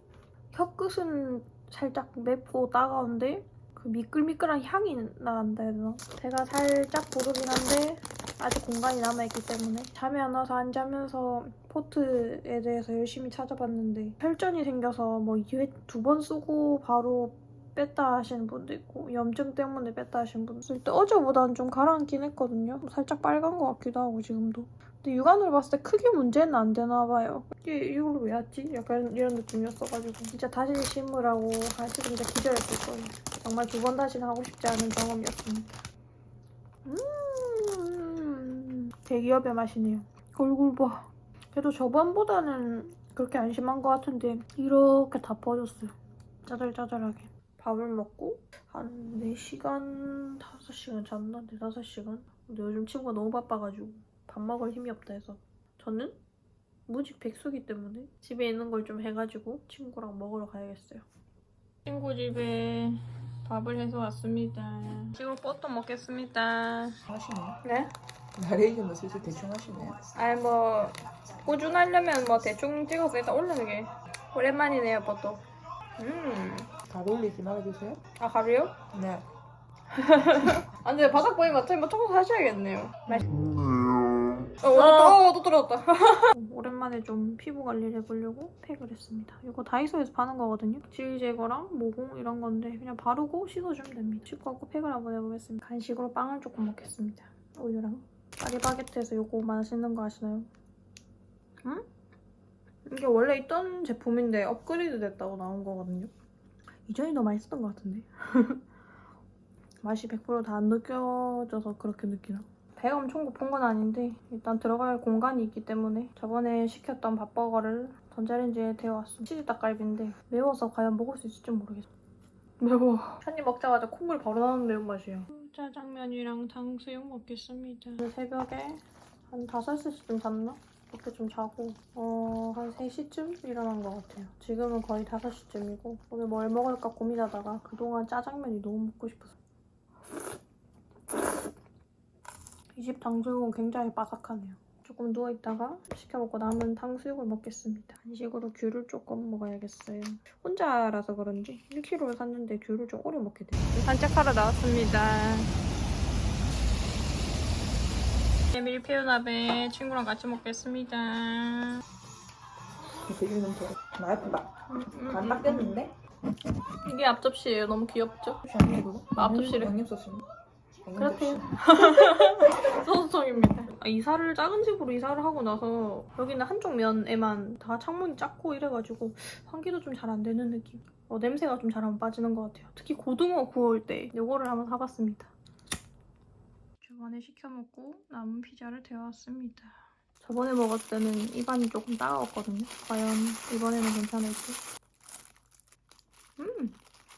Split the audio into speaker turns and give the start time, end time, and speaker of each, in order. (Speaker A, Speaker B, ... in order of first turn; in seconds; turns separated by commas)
Speaker A: 0.5-35.7, Speaker A: 36.8-45.9, Speaker A: 46.5-56.2, Speaker A: 56.9-61.0, Speaker A: 61.9-67.0, Speaker B: 67.1-67.6, Speaker A: 67.6-67.9, Speaker B: 68.3-70.0, Speaker A: 70.1-75.4, Speaker A: 76.0-76.7, Speaker B: 76.9-78.0, Speaker A: 78.2-78.8, Speaker B: 78.9-79.2, Speaker A: 79.9-83.6, Speaker A: 84.6-100.5, Speaker A: 102.8-106.1, Speaker A: 106.8-108.6, Speaker A: 109.8-121.9, Speaker A: 122.6-139.3, Speaker A: 142.7-155.5, Speaker A: 158.5-161.8, Speaker B: 163.0-165.9, Speaker A: 164.7-165.8, Speaker A: 166.8-169.7, Speaker B: 168.4-170.2, Speaker B: 170.8-171.5, Speaker A: 170.9-185.3, Speaker A: 186.8-194.6, Speaker A: 196.4-196.8